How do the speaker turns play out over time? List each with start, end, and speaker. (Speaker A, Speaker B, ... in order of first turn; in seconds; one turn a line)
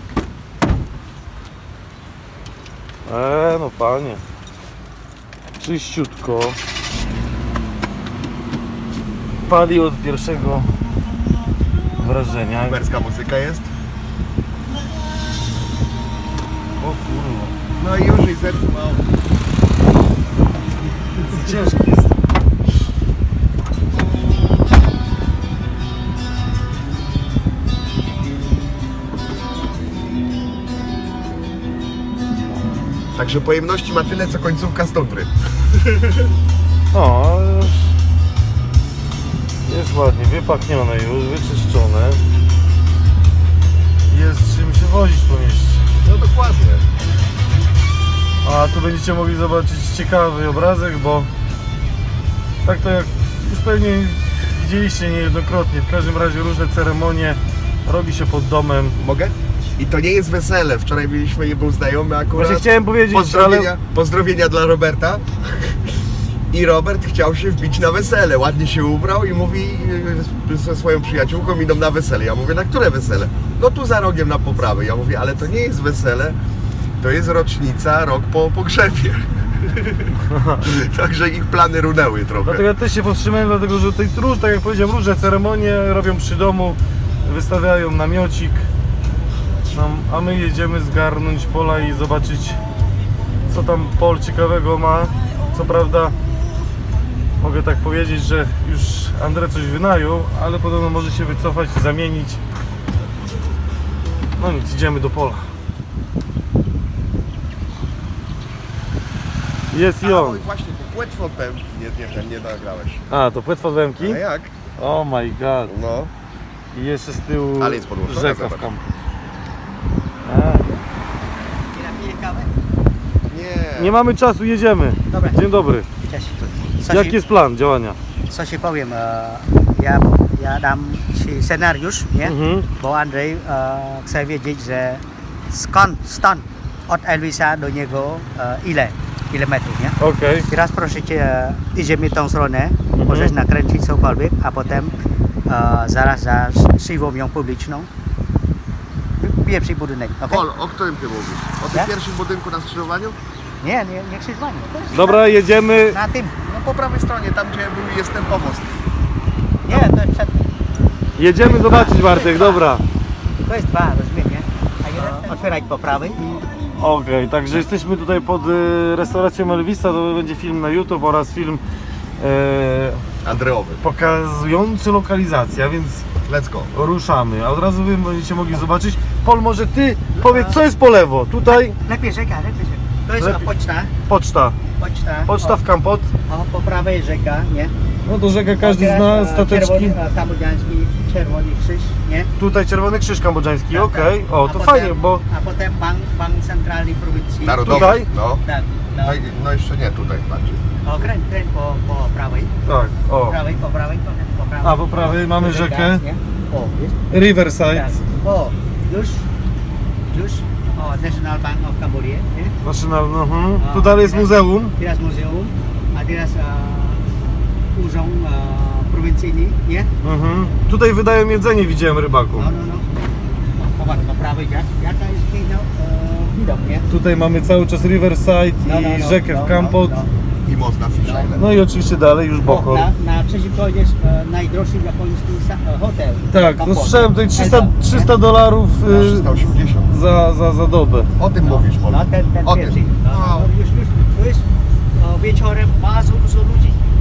Speaker A: 3.0-4.2
Speaker A: 5.6-6.6
Speaker A: 9.4-10.7
Speaker A: 12.0-12.8
Speaker B: 12.6-13.7
Speaker A: 16.8-17.6
Speaker B: 17.8-19.0
Speaker A: 21.2-22.1
Speaker B: 33.1-36.2
Speaker A: 36.9-37.9
Speaker A: 39.6-42.2
Speaker A: 44.1-45.8
Speaker B: 46.0-46.8
Speaker A: 48.4-51.3
Speaker A: 52.6-59.0
Speaker B: 59.0-65.8
Speaker A: 62.3-63.7
Speaker B: 66.5-76.4
Speaker B: 77.0-82.7
Speaker A: 80.3-80.6
Speaker A: 82.4-88.7
Speaker A: 89.7-92.6
Speaker A: 93.5-96.2
Speaker A: 97.4-102.4
Speaker A: 104.4-105.5
Speaker A: 109.7-110.5
Speaker B: 110.0-113.0
Speaker A: 113.1-114.2
Speaker B: 114.0-114.5
Speaker A: 114.8-115.8
Speaker B: 115.7-116.1
Speaker A: 116.7-118.9
Speaker B: 117.6-118.7
Speaker A: 120.2-120.7
Speaker C: 121.7-122.5
Speaker B: 123.3-124.0
Speaker A: 123.8-125.9
Speaker C: 125.1-125.4
Speaker C: 126.1-127.2
Speaker A: 126.9-128.0
Speaker C: 128.3-140.0
Speaker A: 132.2-132.7
Speaker A: 140.0-140.5
Speaker C: 140.5-144.9
Speaker A: 142.9-143.3
Speaker C: 145.5-147.9
Speaker C: 149.2-150.4
Speaker B: 150.3-153.2
Speaker C: 153.6-156.6
Speaker A: 154.9-156.0
Speaker B: 156.6-158.8
Speaker C: 159.7-160.3
Speaker A: 161.2-162.8
Speaker C: 161.3-162.6
Speaker C: 163.4-166.4
Speaker A: 166.8-171.6
Speaker A: 172.2-173.0
Speaker B: 173.2-173.8
Speaker A: 173.8-176.1
Speaker B: 176.2-176.7
Speaker A: 176.7-181.7
Speaker C: 180.2-180.6
Speaker C: 181.4-183.9
Speaker A: 183.2-183.5
Speaker A: 184.1-184.6
Speaker C: 184.8-185.6
Speaker A: 185.3-186.1
Speaker C: 186.3-187.7
Speaker A: 188.1-190.0
Speaker C: 188.6-192.3
Speaker A: 192.4-195.2
Speaker C: 193.7-199.3
Speaker B: 197.4-198.4
Speaker A: 197.6-198.1
Speaker B: 199.0-200.6
Speaker C: 200.8-202.5
Speaker A: 202.7-203.4
Speaker C: 203.3-207.0
Speaker A: 204.6-206.0
Speaker A: 207.1-207.9
Speaker C: 207.7-209.3
Speaker C: 210.1-212.5
Speaker A: 212.6-214.7
Speaker C: 213.6-217.1
Speaker C: 217.7-219.9
Speaker A: 220.0-222.5
Speaker C: 222.3-222.8
Speaker C: 223.6-226.9
Speaker A: 226.9-230.0
Speaker C: 228.6-230.1
Speaker B: 230.4-231.6
Speaker C: 231.0-231.3
Speaker A: 231.4-232.9
Speaker C: 232.4-238.1
Speaker A: 236.3-239.3
Speaker B: 238.8-239.9
Speaker A: 239.9-241.1
Speaker B: 241.2-243.5
Speaker C: 241.4-246.8